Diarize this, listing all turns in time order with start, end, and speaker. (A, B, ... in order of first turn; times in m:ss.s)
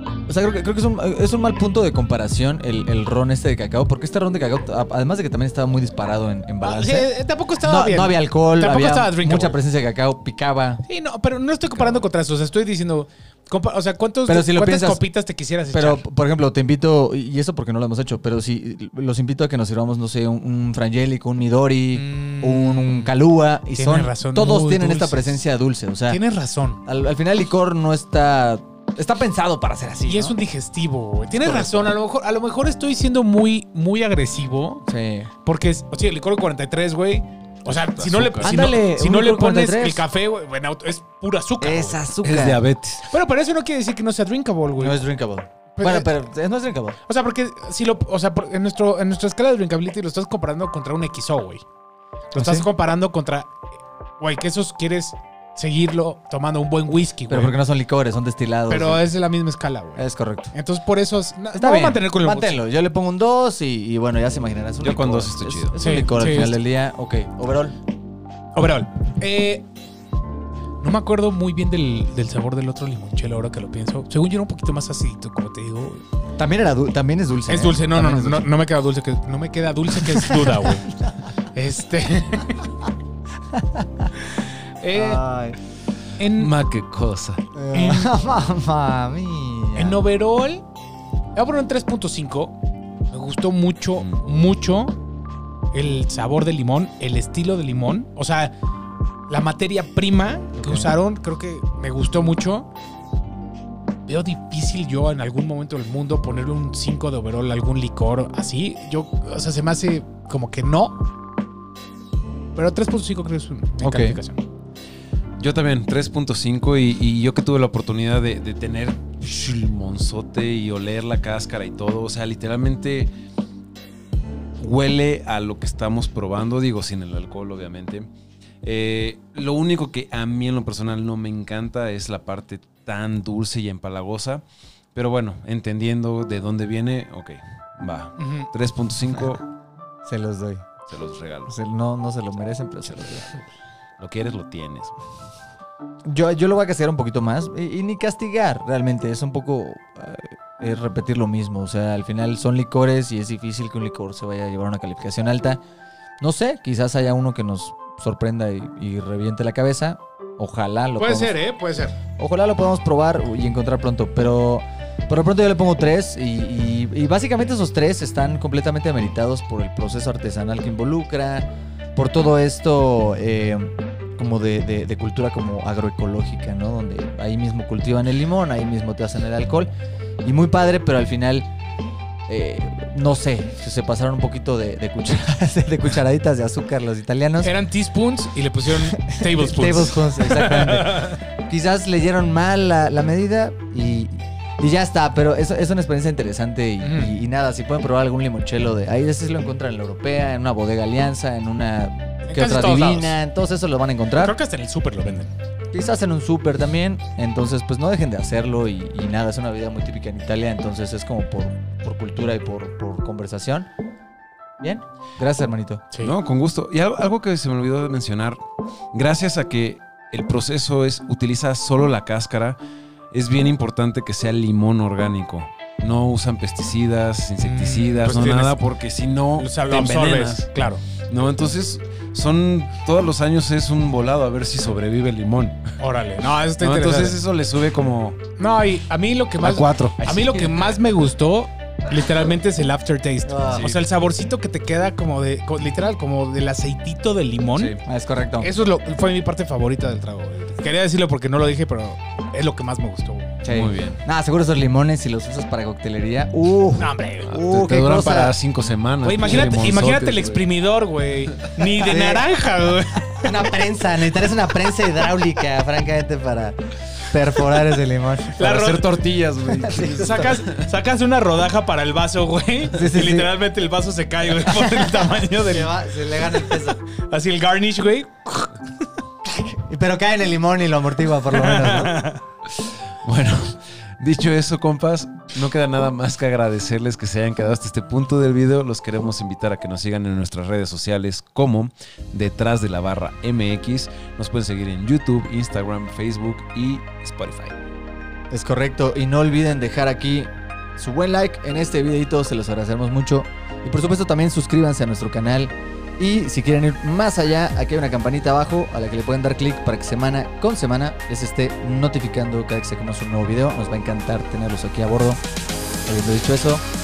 0:00.3-0:07.1 A
0:06.6-0:09.6 B
0:07.6-0:10.8 A
0:10.9-0:16.0 B
0:14.2-0:15.0 A
0:15.7-0:26.2 A
0:21.9-0:23.1 B
0:23.7-0:25.4 B
0:26.1-0:26.8 B
0:26.8-0:30.4 A
0:30.0-0:34.8 B
0:31.4-0:32.0 A
0:34.9-0:35.3 A
0:35.4-0:42.2 B
0:37.7-0:38.7 C
0:38.4-0:40.0 A
0:41.6-0:42.6 A
0:42.2-0:43.1 C
0:43.1-0:45.0 B
0:44.8-0:47.0 A
0:45.8-0:46.1 B
0:47.0-0:51.6 B
0:52.3-0:53.5 B
0:52.3-0:52.7 A
0:54.2-0:57.6 B
0:57.3-0:59.1 A
0:58.7-1:02.6 B
1:00.0-1:00.5 A
1:01.5-1:07.8 A
1:04.8-1:05.8 C
1:05.8-1:06.6 B
1:08.5-1:09.7 B
1:10.8-1:16.0 B
1:16.4-1:18.5 A
1:17.5-1:22.7 B
1:20.0-1:20.8 A
1:23.5-1:24.1 A
1:24.4-1:25.2 B
1:24.9-1:25.6 A
1:26.2-1:26.5 B
1:26.2-1:27.4 C
1:27.5-1:30.0 A
1:27.7-1:28.1 B
1:29.8-1:30.6 B
1:31.3-1:32.6 B
1:33.1-1:35.0 B
1:34.0-1:34.2 C
1:35.7-1:38.5 B
1:39.3-1:42.7 B
1:40.6-1:40.9 A
1:44.1-1:51.1 B
1:52.5-1:54.4 B
1:53.8-1:54.2 A
1:55.4-2:03.1 C
2:04.6-2:08.1 C
2:08.6-2:14.4 C
2:14.9-2:19.4 C
2:18.2-2:18.5 B
2:20.0-2:20.7 A
2:20.9-2:21.5 C
2:21.5-2:23.4 A
2:24.0-2:25.0 C
2:26.0-2:35.6 A
2:36.2-2:41.4 A
2:41.0-2:42.0 B
2:42.2-2:59.7 A
3:00.2-3:01.5 A
3:02.3-3:07.5 A
3:07.4-3:11.2 B
3:08.9-3:24.4 A
3:16.8-3:17.1 B
3:22.2-3:23.2 B
3:24.2-3:25.3 B
3:25.7-3:33.7 A
3:34.6-3:35.8 A
3:36.0-3:38.4 C
3:38.9-3:42.6 C
3:43.1-3:50.5 C
3:47.4-3:48.6 B
3:49.4-3:50.8 B
3:51.1-3:55.8 C
3:55.8-3:57.2 B
3:56.6-3:58.2 C
3:58.4-4:07.8 B
3:59.4-4:00.7 C
4:03.2-4:03.7 A
4:07.5-4:07.8 C
4:07.8-4:08.5 A
4:08.4-4:13.4 B
4:13.4-4:18.4 A
4:13.4-4:14.0 C
4:16.8-4:17.4 B
4:17.2-4:20.5 C
4:19.0-4:23.5 B
4:21.8-4:22.3 A
4:23.2-4:28.4 A
4:28.3-4:29.0 B
4:28.4-4:30.7 C
4:29.5-4:30.3 A
4:29.6-4:35.8 B
4:32.7-4:33.3 A
4:34.5-4:36.8 A
4:36.3-4:38.6 B
4:39.3-4:42.0 A
4:41.3-4:42.2 B
4:43.0-4:57.6 C
4:58.3-5:15.2 A
5:15.8-5:16.6 A